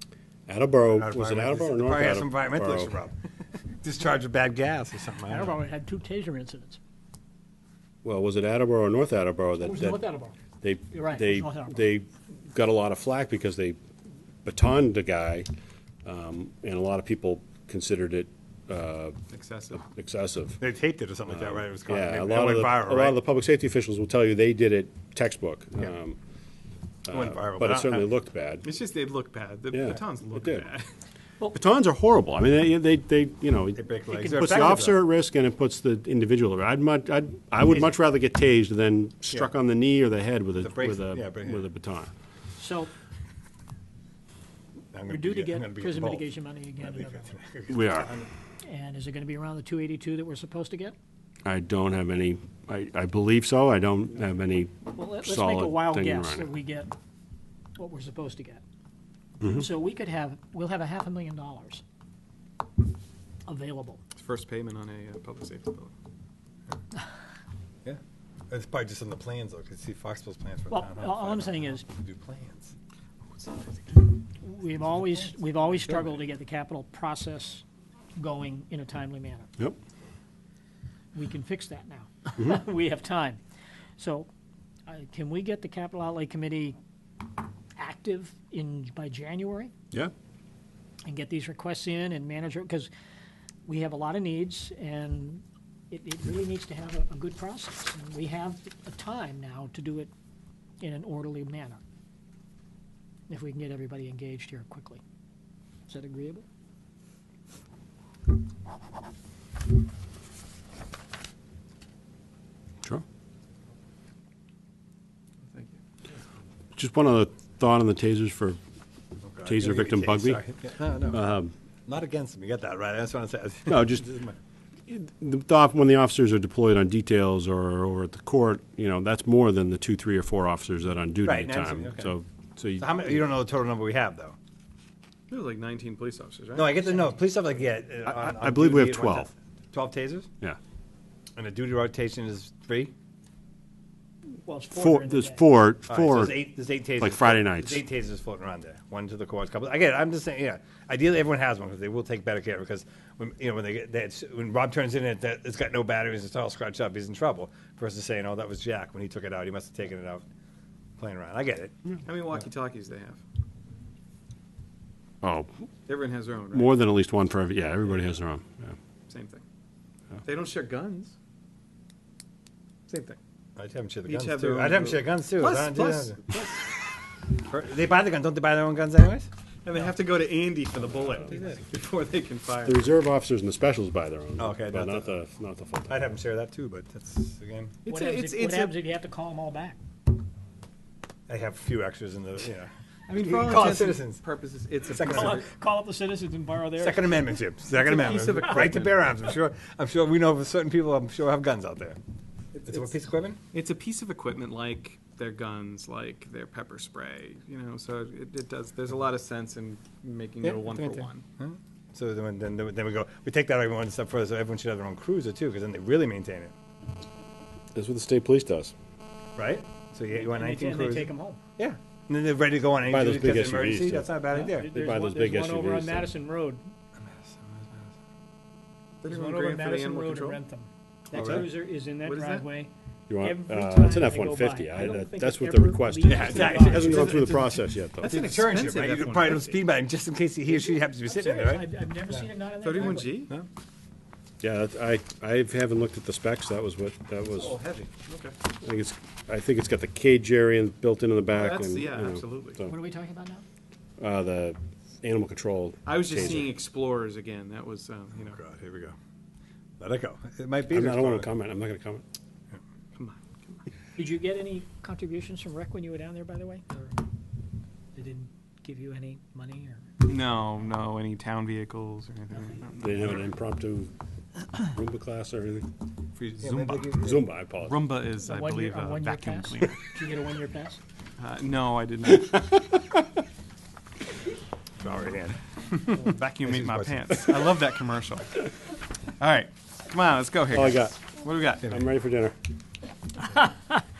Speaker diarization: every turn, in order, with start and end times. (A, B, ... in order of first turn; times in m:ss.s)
0:00.5-0:02.9 A
0:00.9-0:03.1 B
0:03.8-0:05.6 B
0:05.2-0:06.8 C
0:08.0-0:10.0 A
0:09.6-0:10.4 C
0:10.6-0:13.8 A
0:10.9-0:11.8 C
0:14.4-0:15.5 A
0:16.0-0:19.2 A
0:19.3-0:19.8 D
0:19.8-0:20.6 A
0:20.6-0:23.2 B
0:21.3-0:26.2 A
0:27.0-0:28.6 A
0:27.1-0:28.1 B
0:28.6-0:30.9 D
0:29.7-0:30.7 A
0:31.5-0:42.1 A
0:33.8-0:35.0 B
0:40.6-0:41.6 B
0:42.6-0:42.9 C
0:44.9-0:48.3 B
0:45.1-0:47.4 C
0:47.7-0:48.1 A
0:48.6-0:51.0 C
0:51.4-0:56.5 A
0:54.9-0:56.9 C
0:57.8-0:58.6 C
0:59.4-0:59.6 A
0:59.4-1:01.8 C
1:03.4-1:04.0 C
1:04.2-1:05.9 D
1:07.8-1:12.7 B
1:10.7-1:11.8 C
1:14.4-1:17.6 C
1:18.2-1:19.5 C
1:21.1-1:23.4 C
1:24.0-1:24.3 C
1:24.9-1:26.8 C
1:27.8-1:29.7 C
1:31.0-1:32.9 C
1:33.6-1:40.1 C
1:40.8-1:41.8 C
1:43.3-1:45.0 C
1:45.9-1:46.4 C
1:56.8-1:58.6 A
1:59.2-2:01.2 B
1:59.4-2:00.4 A
2:01.1-2:01.5 A
2:01.8-2:04.4 B
2:03.7-2:04.0 A
2:04.9-2:13.2 A
2:11.2-2:12.1 B
2:12.8-2:14.4 B
2:15.3-2:16.8 D
2:16.5-2:20.3 B
2:16.9-2:17.2 C
2:18.0-2:19.3 A
2:21.3-2:22.9 B
2:24.4-2:25.4 C
2:24.7-2:26.4 A
2:25.9-2:40.2 B
2:27.0-2:27.8 A
2:41.0-2:41.8 B
2:42.0-2:43.2 D
2:45.2-2:45.5 A
2:45.9-2:46.8 D
2:46.5-2:48.8 A
2:49.1-2:49.4 D
2:50.2-2:51.1 D
2:52.9-2:53.2 D
2:53.6-2:56.2 B
2:54.0-2:56.6 D
2:57.5-2:59.3 B
2:59.6-3:02.9 D
3:02.6-3:06.0 A
3:04.4-3:05.1 B
3:05.9-3:07.8 B
3:07.8-3:08.8 D
3:07.8-3:09.8 C
3:11.3-3:14.2 B
3:13.1-3:15.5 D
3:14.8-3:15.4 B
3:15.0-3:17.2 C
3:16.8-3:22.0 B
3:17.7-3:19.0 D
3:22.5-3:22.9 D
3:22.6-3:23.4 B
3:23.5-3:31.2 D
3:30.4-3:36.5 B
3:37.7-3:38.7 A
3:39.4-3:44.8 B
3:40.1-3:41.4 C
3:42.9-3:44.1 A
3:44.3-3:46.7 C
3:44.7-3:46.1 A
3:47.0-3:47.9 B
3:49.0-3:50.4 D
3:49.0-3:57.1 C
3:51.1-3:51.4 B
3:51.2-3:51.4 D
3:52.0-3:52.5 D
3:53.1-3:58.2 A
3:56.0-3:57.5 B
3:56.5-3:59.6 D
3:58.0-4:02.2 B
4:01.0-4:03.2 C
4:02.6-4:03.3 D
4:03.0-4:03.5 B
4:04.4-4:07.6 A
4:07.3-4:08.4 D
4:08.6-4:12.8 A
4:11.3-4:12.6 D
4:12.6-4:13.4 C
4:14.0-4:16.5 A
4:15.8-4:18.4 D
4:18.2-4:19.0 B
4:19.8-4:21.3 B
4:20.7-4:22.0 A
4:22.9-4:23.6 D
4:24.0-4:27.0 C
4:27.9-4:29.9 C
4:30.0-4:33.2 D
4:32.8-4:33.9 A
4:34.6-4:35.7 A
4:36.1-4:36.9 D
4:36.4-4:37.2 B
4:36.9-4:37.8 A
4:37.6-4:39.9 D
4:38.2-4:40.8 C
4:41.2-4:42.7 D
4:44.8-4:47.6 B
4:46.0-4:48.4 D
4:49.2-4:51.7 D
4:50.5-4:51.0 A
4:51.6-4:52.4 A